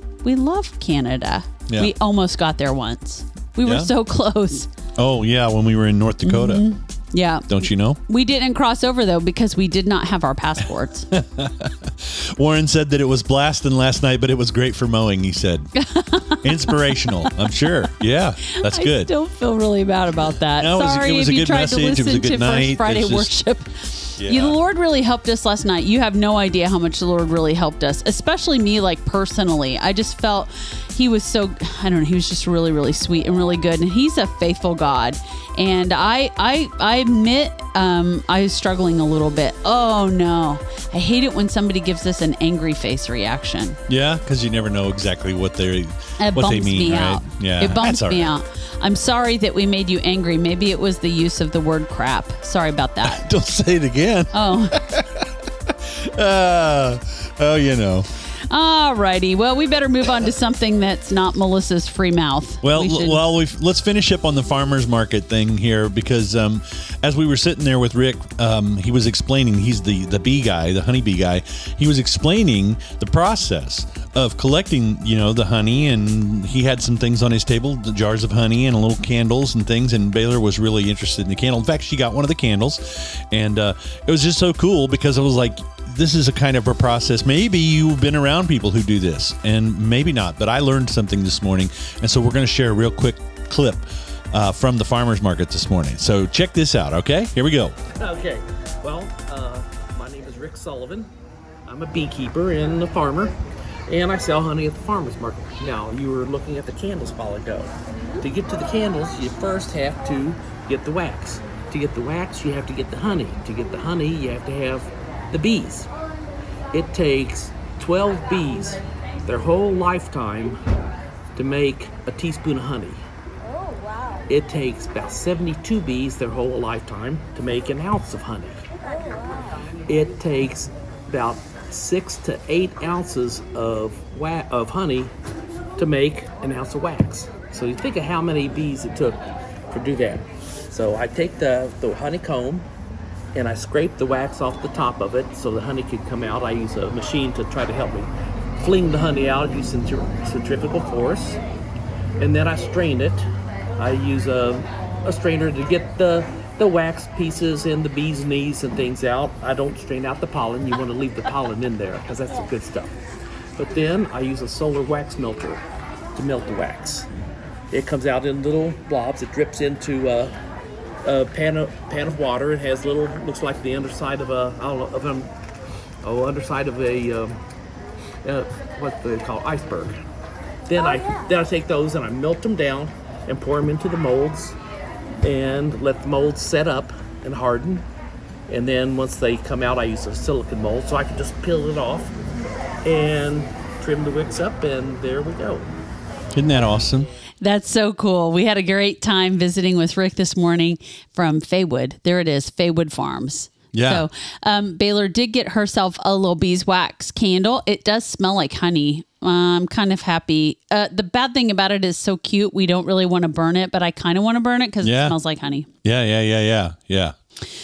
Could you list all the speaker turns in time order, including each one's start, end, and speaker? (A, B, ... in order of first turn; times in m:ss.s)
0:00.2-0:04.7 A
0:03.6-0:03.9 B
0:05.0-0:06.6 B
0:06.2-0:11.1 A
0:07.5-0:08.0 B
0:11.1-0:15.7 B
0:15.8-0:17.3 A
0:16.4-0:19.1 B
0:18.5-0:43.8 A
0:20.6-0:23.3 B
0:24.2-0:24.6 B
0:43.9-0:48.3 B
0:46.2-0:53.3 A
0:53.0-0:58.1 B
0:54.3-0:54.8 A
0:58.5-1:03.2 A
1:02.6-1:37.8 B
1:37.9-1:41.1 C
1:41.6-1:43.4 C
1:43.9-1:55.9 C
1:56.7-2:00.6 C
2:01.3-2:03.0 C
2:04.3-2:08.6 C
2:09.9-2:15.1 C
2:15.8-2:19.2 C
2:19.7-2:22.7 C
2:23.3-2:31.4 C
2:32.2-2:33.2 C
2:33.8-2:42.9 C
2:43.6-2:45.6 C
2:46.1-2:47.1 C
2:47.7-2:50.3 C
2:51.0-2:55.3 C
2:56.0-2:57.4 C
2:58.2-3:00.0 C
3:00.7-3:04.6 C
3:05.2-3:07.8 C
3:08.5-3:12.1 C
3:12.8-3:15.7 C
3:16.3-3:17.1 B
3:17.4-3:35.7 A
3:23.7-3:24.0 B
3:34.8-3:35.2 B
3:35.8-3:37.2 B